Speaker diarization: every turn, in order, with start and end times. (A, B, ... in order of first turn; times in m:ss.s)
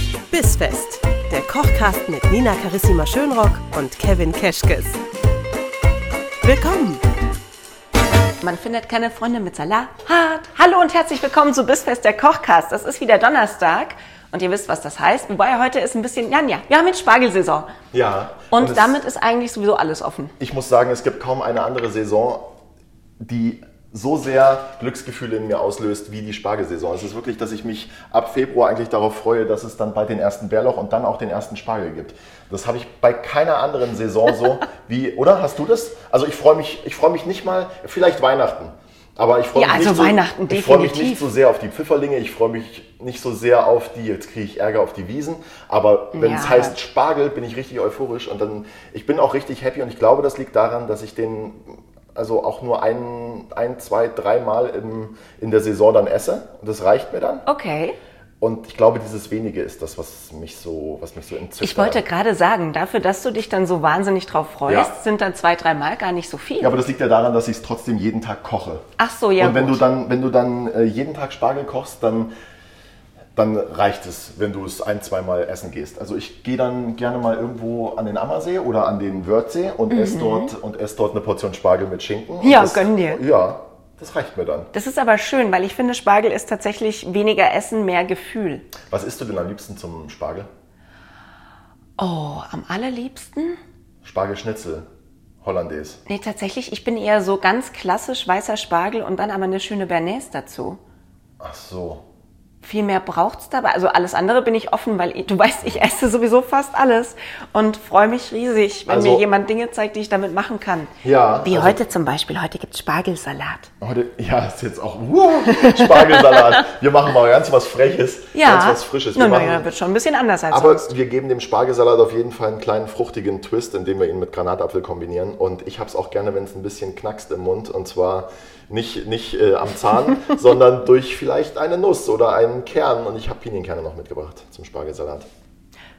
0:00.3-0:05.0 A
0:06.4-0:07.0 A
0:08.4-0:17.7 B
0:17.9-0:19.0 C
0:18.5-0:20.3 B
0:20.4-0:22.5 C
0:23.2-0:57.4 C
0:39.5-0:41.2 B
0:46.1-0:46.7 B
0:57.4-0:58.0 B
0:58.4-1:02.0 C
1:01.6-1:06.7 B
1:04.7-1:04.9 C
1:06.6-1:12.3 C
1:09.0-1:09.8 B
1:13.3-1:24.7 C
1:19.9-1:20.5 B
1:22.4-1:23.2 B
1:24.7-1:28.7 B
1:28.8-1:30.5 C
1:32.0-1:33.6 B
1:34.0-1:34.9 C
1:35.4-1:36.0 C
1:36.1-1:40.8 B
1:41.4-1:42.0 C
1:42.6-1:50.9 B
1:48.9-1:49.2 C
1:51.0-1:51.8 C
1:51.4-1:53.7 B
1:53.8-1:59.7 C
1:55.5-1:56.6 B
1:58.3-2:00.9 B
2:00.5-2:15.3 C